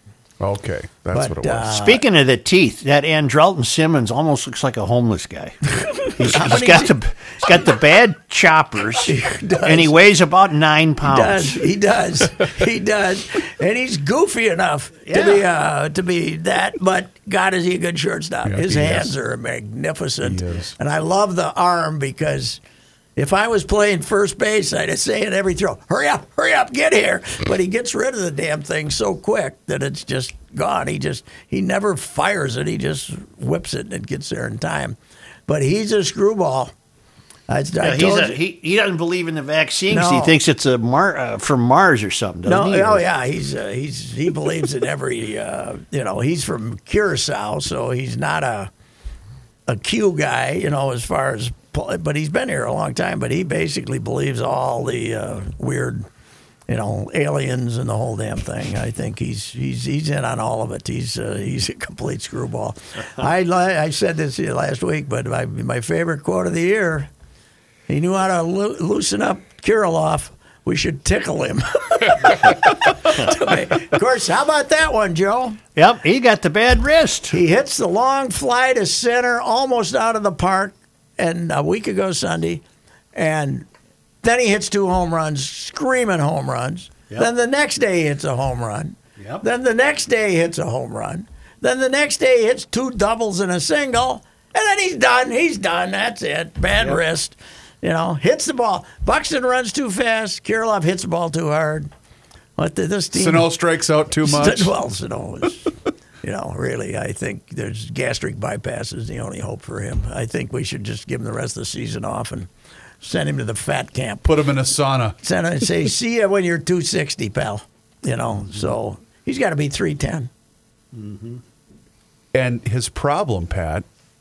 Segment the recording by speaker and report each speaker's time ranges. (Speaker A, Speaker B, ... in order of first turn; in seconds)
Speaker A: 0.4-1.8, 18.4-19.1, 20.2-20.8, 103.1-104.7, 114.2-115.2, 122.3-123.9
Speaker B: 1.1-2.0, 5.8-7.0, 9.1-9.9, 11.0-22.6, 23.2-36.7, 37.5-38.4, 39.9-40.4, 42.5-48.7, 49.7-56.0, 56.7-67.1, 67.9-75.6, 77.3-82.6, 83.2-83.7, 84.2-101.9, 102.6-103.5, 104.2-112.5, 113.0-114.3, 115.2-120.3
Speaker C: 1.7-9.1, 9.6-11.6, 15.1-15.5, 37.8-43.0, 75.8-77.4, 89.2-89.4, 120.9-121.4